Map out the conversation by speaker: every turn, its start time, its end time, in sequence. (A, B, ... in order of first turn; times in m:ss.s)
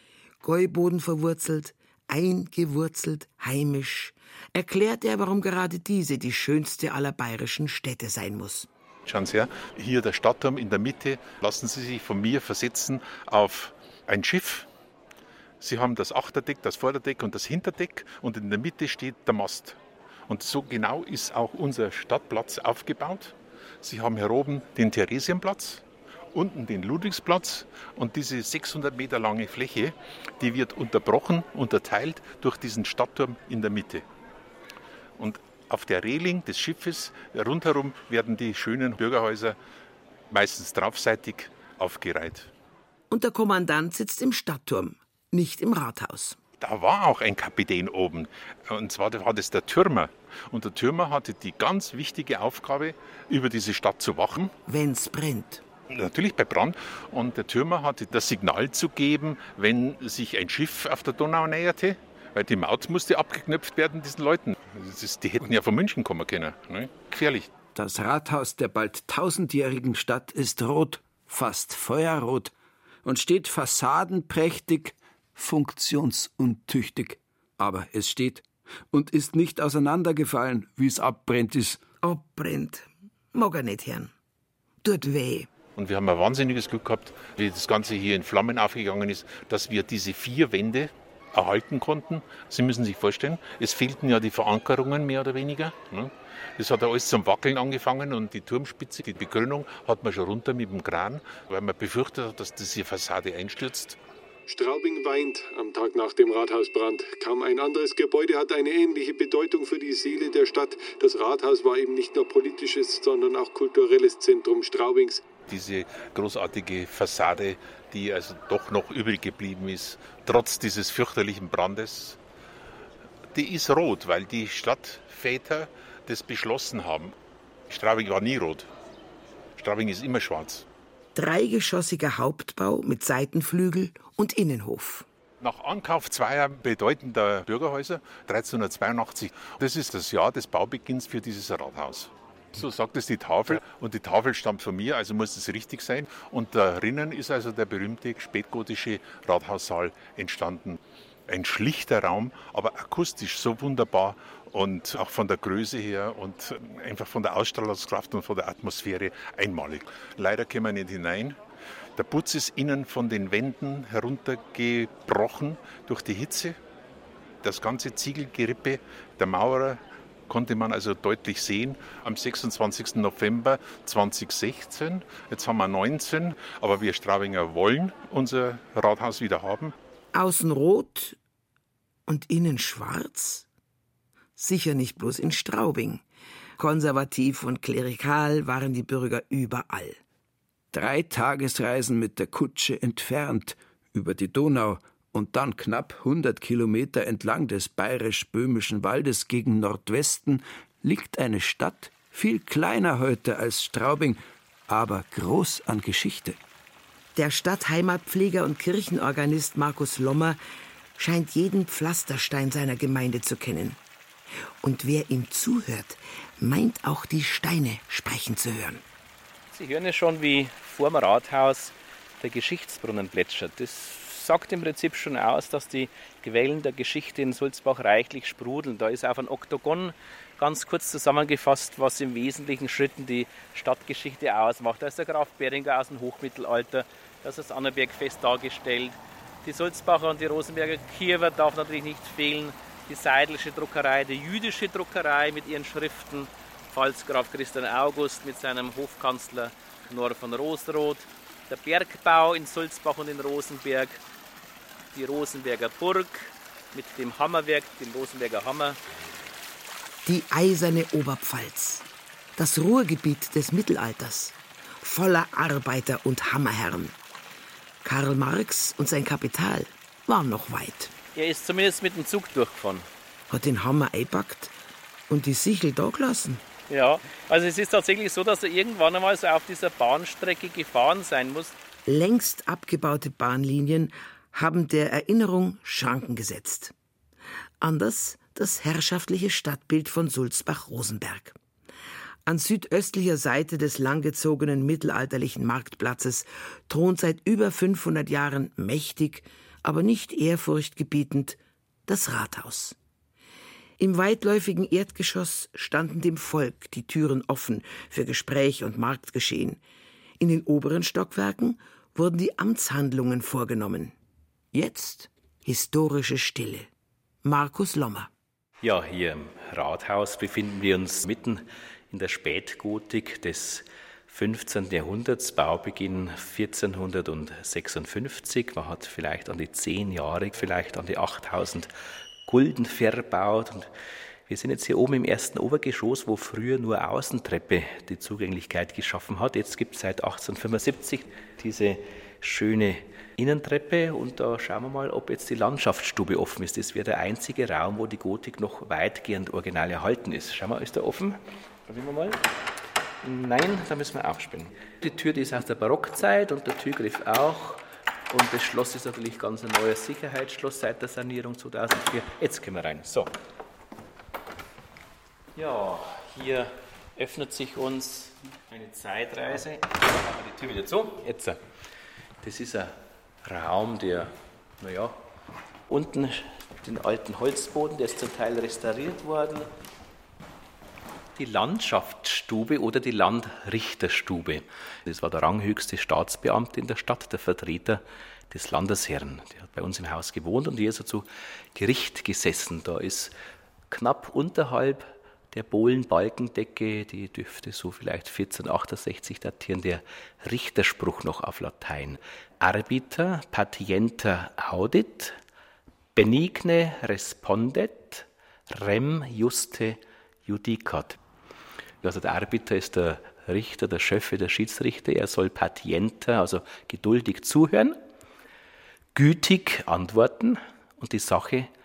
0:00.4-0:08.7 A
0:09.0-0:14.7 B
0:15.6-0:34.0 B
0:35.2-0:39.6 B
0:40.3-0:42.5 B
0:43.1-0:46.4 A
0:46.6-0:54.5 B
0:54.7-0:55.6 A
0:55.9-1:07.5 B
1:07.7-1:12.5 C
1:13.0-1:21.8 C
1:22.0-1:24.1 A
1:24.8-1:25.5 A
1:25.8-1:44.0 B
1:44.5-1:55.2 D
1:55.5-2:02.2 B
2:03.3-2:07.1 B
2:07.7-2:08.7 B
2:09.6-2:10.6 B
2:11.1-2:15.1 A
2:15.4-2:41.4 B
2:42.0-2:46.6 B
2:47.4-2:59.7 B
3:00.1-3:01.2 A
3:02.1-3:03.5 A
3:04.4-3:06.0 A
3:06.6-3:10.0 A
3:10.7-3:26.4 C
3:27.1-3:30.4 A
3:31.0-3:33.8 A
3:34.6-3:38.8 A
3:39.5-4:14.0 E
4:14.9-4:18.8 E
4:20.0-4:27.0 A
4:27.8-4:30.9 A
4:31.1-4:32.9 E
4:33.3-4:34.5 A
4:35.1-4:36.4 A
4:36.7-4:41.6 E
4:41.8-4:46.7 A
4:47.6-4:51.4 A
4:52.2-5:02.8 A
5:03.8-5:09.6 A
5:10.2-5:13.9 A
5:14.5-5:16.7 A
5:17.2-5:18.1 A
5:18.6-5:31.7 E
5:32.2-5:33.7 E
5:34.3-5:52.2 E
5:53.0-6:03.1 E
6:05.4-6:11.4 E
6:12.2-6:12.7 E
6:13.2-6:14.9 E
6:15.7-6:19.5 E
6:21.2-6:33.1 E
6:33.7-6:45.2 E
6:46.0-6:51.0 E
6:51.8-6:57.8 E
6:58.9-7:01.5 E